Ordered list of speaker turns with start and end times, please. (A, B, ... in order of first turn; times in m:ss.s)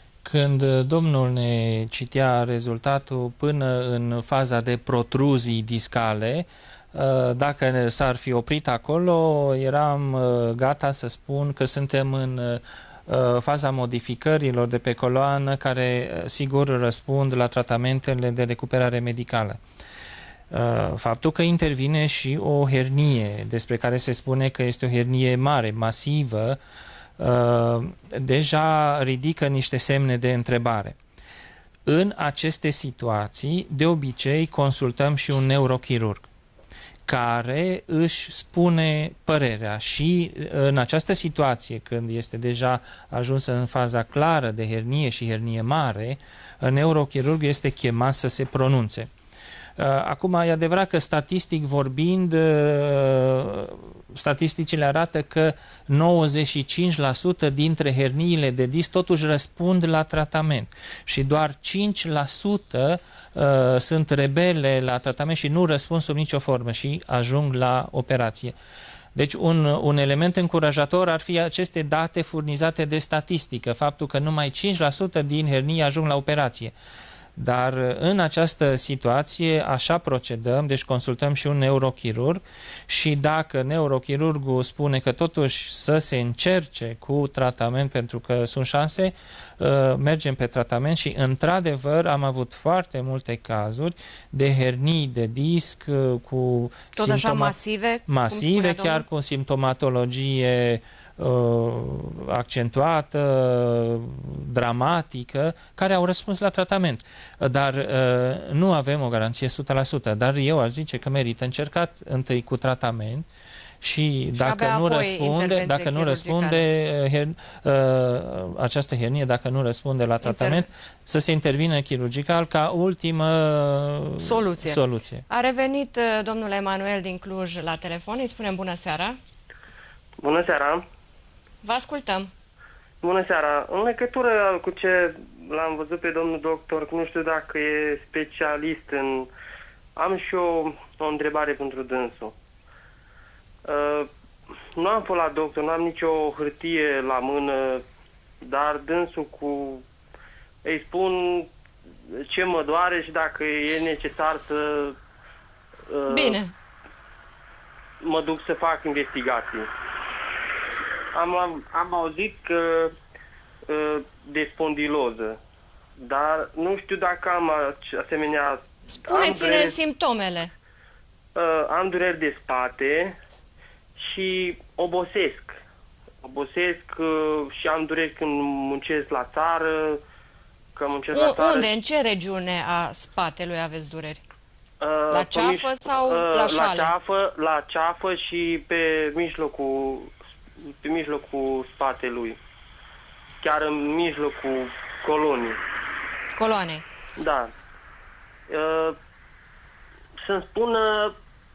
0:00.2-0:19.6 A
0:20.5-0:26.6 A
0:27.2-0:31.0 A
0:31.8-0:36.3 A
0:37.1-0:49.1 A
0:49.8-1:08.5 A
1:09.1-1:16.7 A
1:17.4-1:37.6 A
1:37.0-1:39.0 B
1:38.1-1:53.3 A
1:53.8-2:05.2 A
1:54.3-1:56.6 B
2:00.2-2:00.7 B
2:04.2-2:09.2 B
2:10.2-2:10.8 C
2:11.6-2:12.3 B
2:13.0-2:19.3 C
2:20.0-2:22.3 C
2:23.6-2:24.1 C
2:24.8-2:27.8 C
2:28.4-2:29.8 C
2:30.6-2:31.5 C
2:32.1-2:35.0 C
2:35.9-2:36.4 C
2:36.1-2:36.5 B
2:38.0-2:39.7 C
2:41.1-2:42.9 C
2:43.7-2:45.4 C
2:46.0-2:49.7 C
2:49.0-2:50.5 B
2:51.3-2:53.2 C
2:54.0-2:55.6 C
2:56.2-3:00.0 C
3:00.7-3:01.7 C
3:01.1-3:04.2 B
3:04.8-3:12.4 C
3:05.1-3:06.9 B
3:13.4-3:15.6 C
3:16.4-3:16.8 B
3:17.2-3:17.5 C
3:18.5-3:19.0 C
3:20.2-3:21.2 C